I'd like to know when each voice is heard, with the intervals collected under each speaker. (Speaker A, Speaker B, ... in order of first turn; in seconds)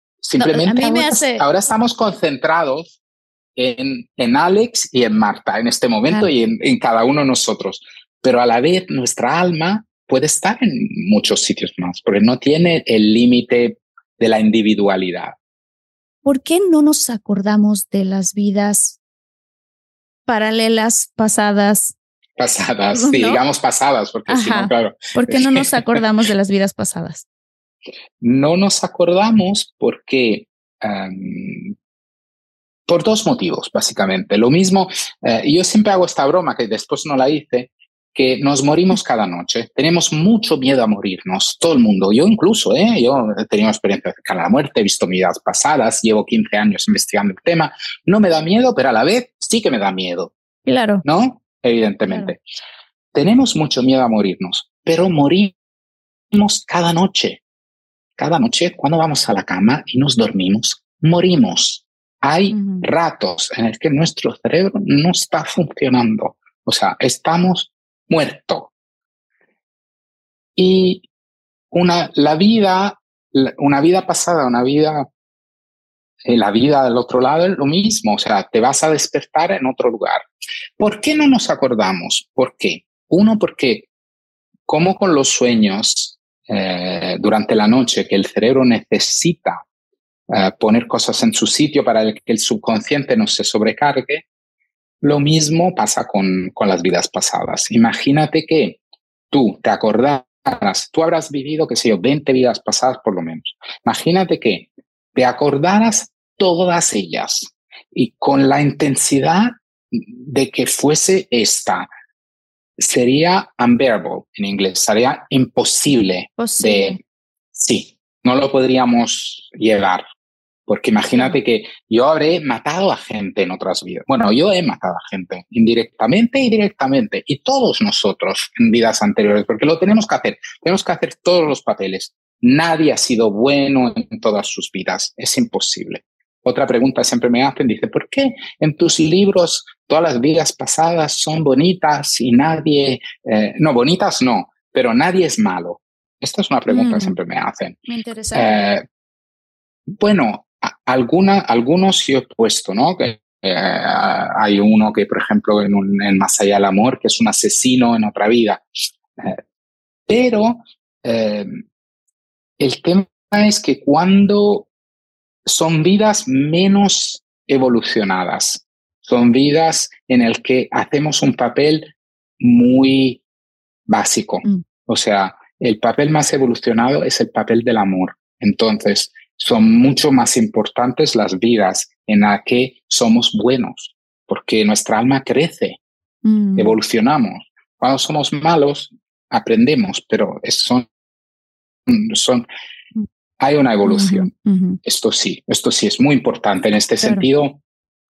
Speaker A: 0.2-3.0, 3.6-15.4, 22.4-26.0, 28.2-31.7, 32.9-50.3, 51.0-52.4, 53.1-55.5, 56.3-57.4, 58.2-68.7, 70.6-71.1, 71.7-75.1, 76.2-80.2, 80.8-83.9, 84.7-89.6, 90.3-94.2, 95.0-98.8, 99.3-111.9, 112.8-117.0, 117.5-120.0, 120.7-147.8, 148.3-148.8, 149.9-158.6, 160.1-161.6, 162.6-164.7, 165.5-173.2, 173.9-185.8, 186.6-190.9, 191.9-192.5, 193.4-194.3, 194.8-197.6
Speaker B: 0.4-1.4, 16.2-19.0, 20.3-21.9, 22.9-23.4, 24.3-27.2, 50.7-51.0, 62.5-62.9, 116.4-117.0, 146.7-147.2, 147.9-148.5, 186.2-186.8, 193.8-194.8